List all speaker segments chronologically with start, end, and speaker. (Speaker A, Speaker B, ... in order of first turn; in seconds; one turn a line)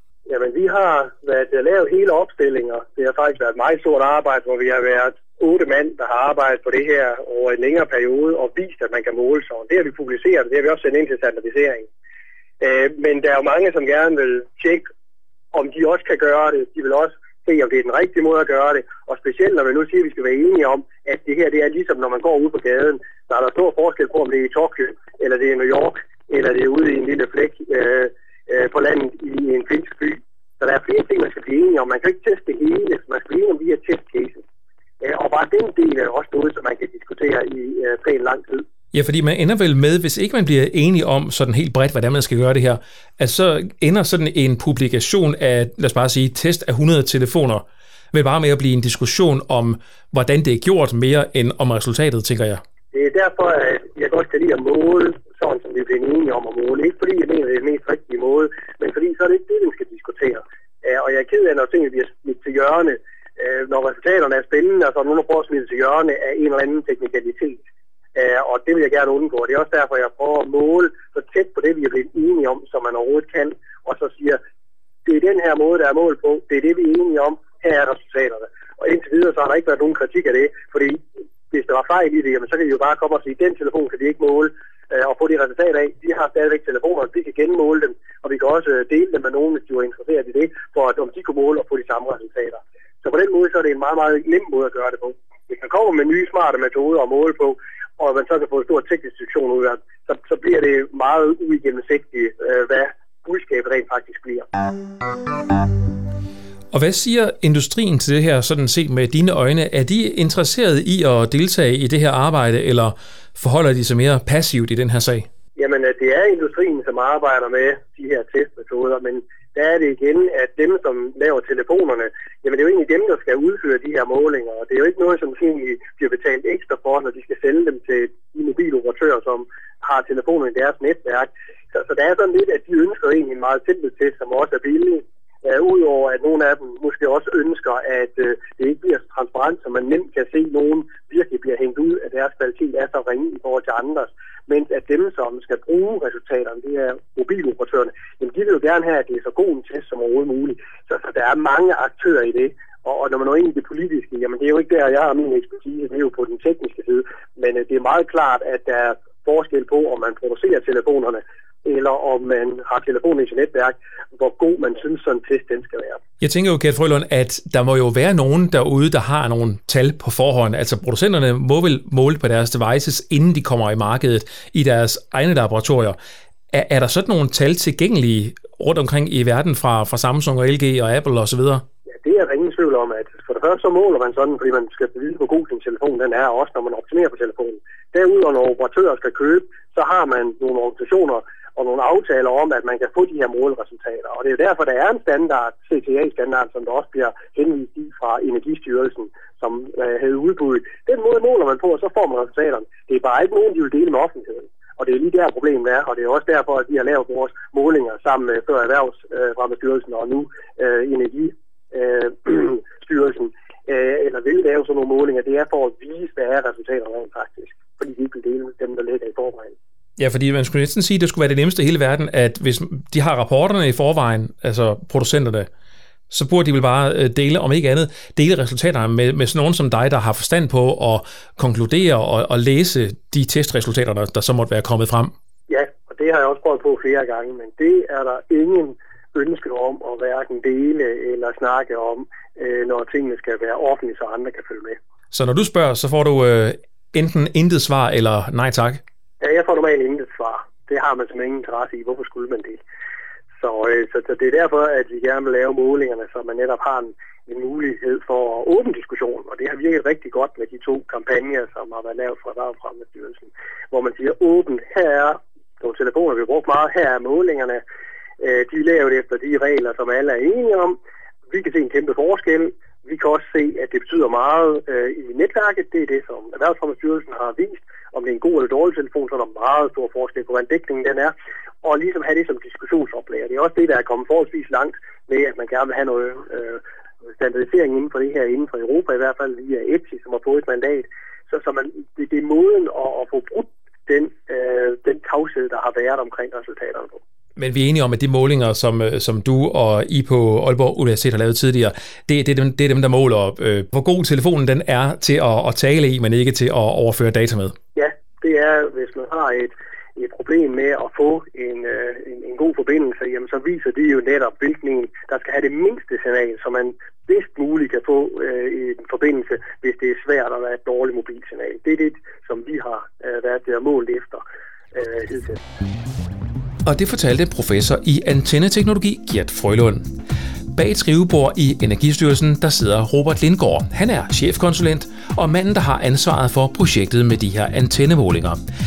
Speaker A: 0.3-11.9
Speaker A: 12.6-14.8
Speaker A: 15.5-34.4
Speaker A: 35.0-38.6
Speaker B: 38.9-52.6
Speaker A: 52.9-67.6
Speaker A: 68.2-74.4
Speaker A: 75.1-81.0
Speaker A: 81.5-104.5
Speaker B: 106.7-115.3
Speaker A: 115.6-166.0
Speaker B: 166.2-176.0
Speaker B: 176.5-181.6
Speaker A: 182.0-219.5
Speaker B: 220.0-225.5
Speaker B: 226.1-235.1
Speaker A: 235.5-244.8
Speaker B: 245.1-248.8
Speaker A: 249.2-252.6
Speaker A: 253.4-267.6
Speaker A: 268.2-270.8
Speaker A: 271.3-281.1
Speaker A: 281.6-286.6
Speaker A: 287.2-297.0
Speaker B: 297.4-307.6
Speaker A: 307.8-325.4
Speaker B: 326.7-329.9
Speaker B: 330.5-338.4